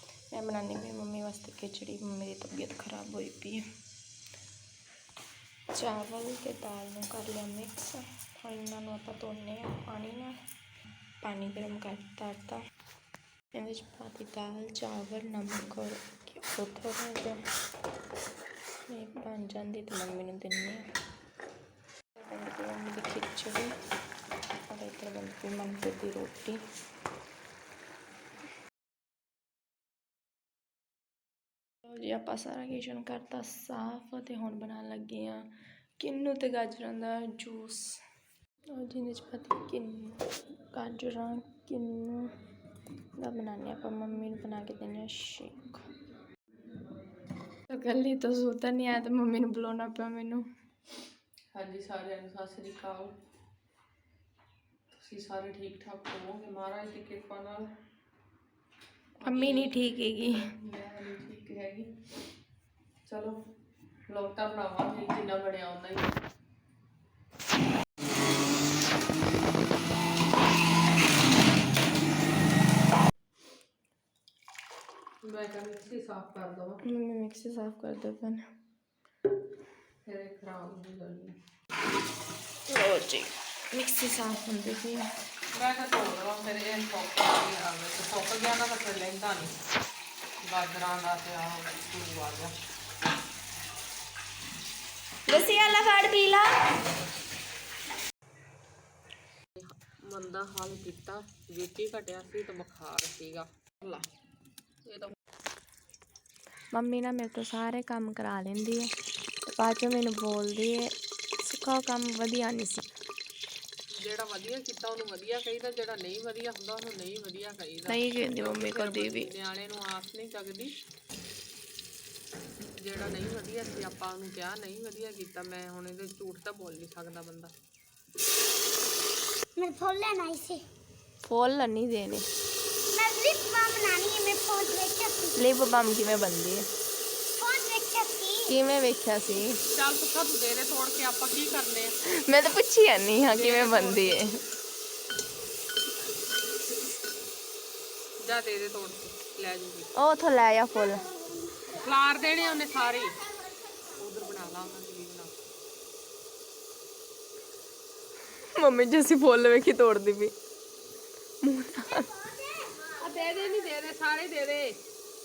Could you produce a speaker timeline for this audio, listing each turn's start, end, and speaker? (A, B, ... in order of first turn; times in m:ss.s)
0:00.3-0:03.6 A
0:05.7-0:10.4 A
0:11.2-0:12.6 A
0:13.5-0:17.4 A
0:18.9-0:20.8 A
0:22.2-0:23.7 A
0:24.7-0:26.6 A
0:31.8-0:35.5 A
0:36.0-0:38.0 A
0:38.7-0:42.3 A
0:43.2-0:45.8 A
0:47.7-0:50.4 A
0:51.5-0:53.1 B
0:54.9-0:57.7 B
0:59.2-1:00.4 A
0:59.2-1:01.9 B
1:03.0-1:03.4 B
1:04.1-1:06.1 B
1:15.2-1:16.8 B
1:16.8-1:18.4 A
1:20.0-1:21.4 B
1:22.7-1:25.1 A
1:25.6-1:29.5 B
1:30.4-1:32.5 B
1:35.3-1:36.5 A
1:39.6-1:44.0 B
1:44.8-1:45.2 B
1:46.7-1:48.9 A
1:49.5-1:52.8 A
1:54.0-2:00.7 B
1:57.9-1:59.3 A
2:02.8-2:07.5 B
2:09.6-2:10.6 C
2:11.2-2:12.2 A
2:12.9-2:15.4 C
2:15.3-2:16.6 A
2:17.4-2:18.5 C
2:18.5-2:19.6 A
2:19.7-2:22.0 B
2:22.0-2:24.3 A
2:23.2-2:24.2 B
2:28.2-2:29.9 B
2:30.0-2:31.1 A
2:30.9-2:31.8 C
2:31.7-2:33.3 B
2:33.9-2:35.3 B
2:38.5-2:40.3 A
2:41.4-2:42.1 A
2:41.9-2:43.0 C
2:42.9-2:44.8 B